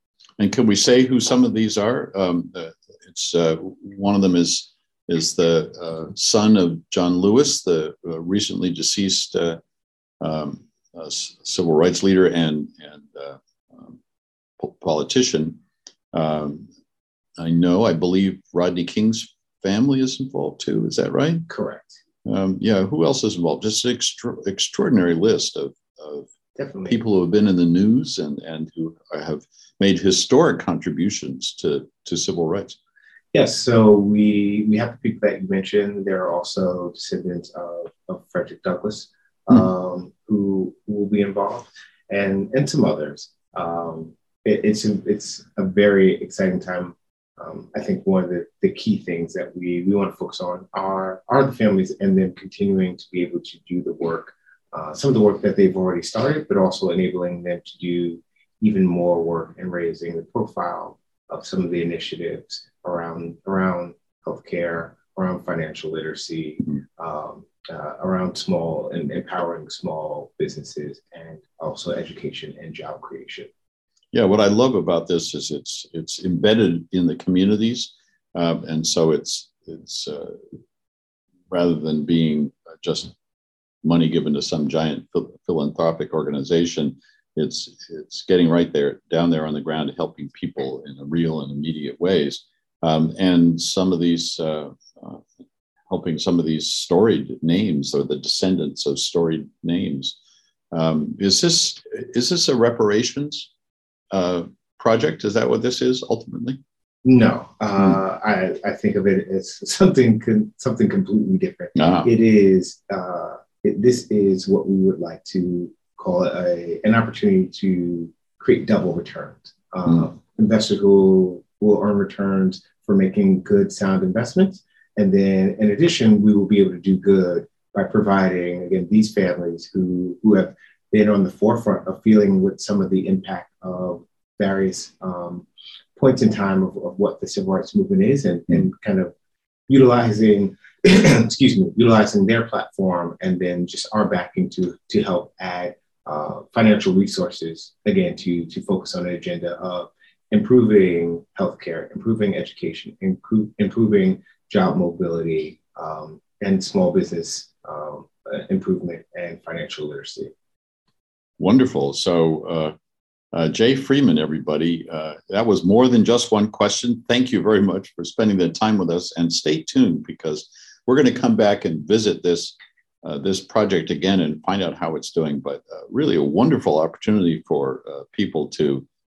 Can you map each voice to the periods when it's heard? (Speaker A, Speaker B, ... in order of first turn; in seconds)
Speaker A: 0.4-9.6, 10.2-14.0, 14.6-15.6, 16.1-16.7, 17.4-21.4, 22.2-26.3, 26.9-32.8, 74.1-80.4, 81.5-83.1, 83.8-95.2, 95.9-100.2, 100.7-103.5, 104.1-106.6, 111.8-112.1, 161.4-162.7, 163.3-178.8
Speaker B: 21.5-22.0, 26.6-27.0, 33.3-73.5, 107.0-139.1, 139.7-160.3